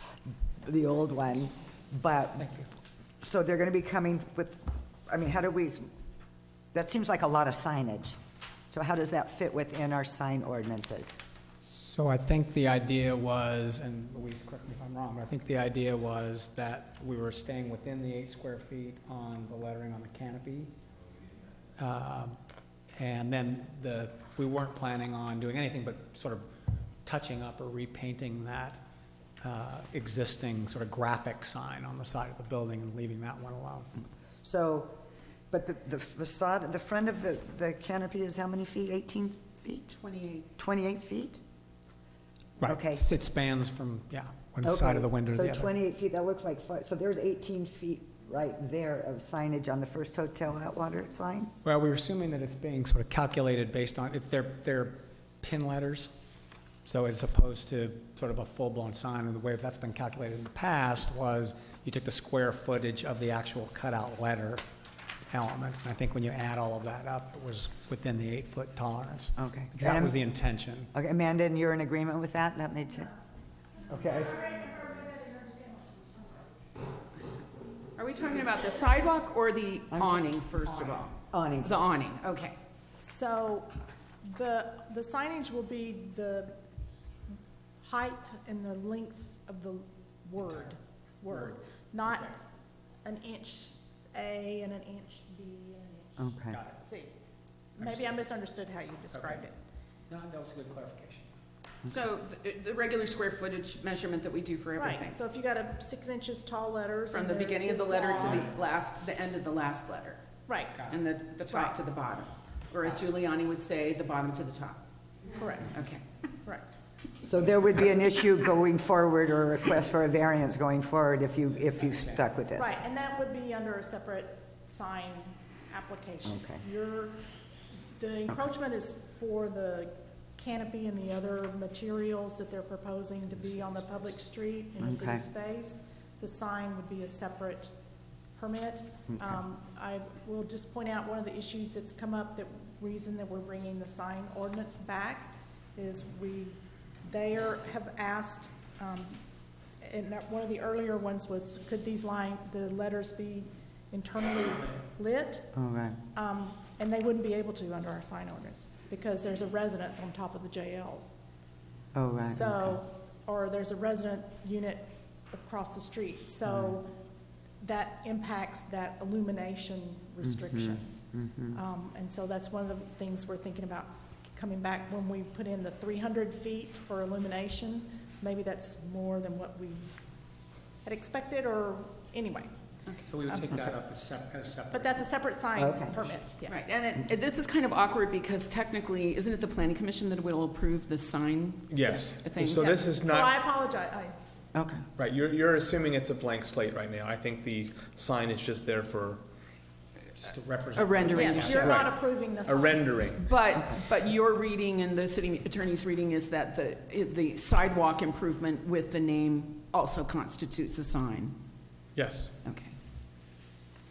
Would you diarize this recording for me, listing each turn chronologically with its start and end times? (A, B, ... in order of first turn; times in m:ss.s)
0:00.6-0:02.5 A
0:02.4-0:02.7 B
0:03.2-0:05.9 A
0:06.7-0:08.2 A
0:08.7-0:11.1 A
0:11.6-0:20.7 B
0:21.8-0:22.4 B
0:23.0-0:26.4 B
0:27.0-0:28.8 B
0:29.4-0:33.9 B
0:34.4-0:34.9 A
0:35.5-0:39.9 A
0:39.9-0:40.4 C
0:40.6-0:41.4 A
0:42.6-0:45.7 B
0:42.6-0:43.0 A
0:44.6-0:51.5 A
0:51.6-0:56.1 B
0:56.8-1:04.6 B
1:05.3-1:10.9 B
1:09.4-1:10.2 A
1:10.9-1:13.1 A
1:13.9-1:14.4 B
1:14.0-1:16.2 D
1:18.0-1:22.6 C
1:19.9-1:20.3 A
1:21.1-1:21.9 A
1:23.0-1:23.7 D
1:24.2-1:26.6 D
1:27.8-1:32.4 D
1:31.3-1:32.3 B
1:33.0-1:37.2 D
1:36.2-1:36.6 A
1:36.5-1:36.8 B
1:37.8-1:39.6 D
1:37.8-1:38.2 B
1:39.1-1:39.4 B
1:40.1-1:41.3 B
1:41.8-1:45.2 C
1:44.8-1:48.5 D
1:47.1-1:50.2 C
1:50.5-1:50.8 D
1:50.9-1:54.8 C
1:51.5-1:51.8 D
1:55.4-1:55.7 D
1:55.7-1:56.0 C
1:57.2-2:02.7 A
2:01.8-2:02.2 B
2:02.6-2:07.2 D
2:06.2-2:06.6 A
2:08.0-2:17.7 D
2:14.8-2:15.2 A
2:18.4-2:29.2 D
2:29.8-2:35.5 D
2:35.5-2:36.0 A
2:36.2-2:41.1 D
2:41.9-2:42.8 A
2:42.2-2:46.9 D
2:47.6-2:59.9 D
2:50.2-2:51.6 A
3:00.8-3:02.5 D
3:03.1-3:05.1 B
3:03.3-3:03.6 D
3:04.7-3:06.7 D
3:05.6-3:06.1 A
3:06.5-3:12.7 C
3:11.8-3:13.3 E
3:11.9-3:14.2 D
3:14.6-3:14.8 A
3:15.0-3:19.2 E
3:20.2-3:21.9 B
3:20.8-3:21.8 C
3:21.1-3:22.9 D
3:22.5-3:23.2 E
3:23.2-3:31.4 C
3:32.0-3:32.3 B
3:32.4-3:32.7 C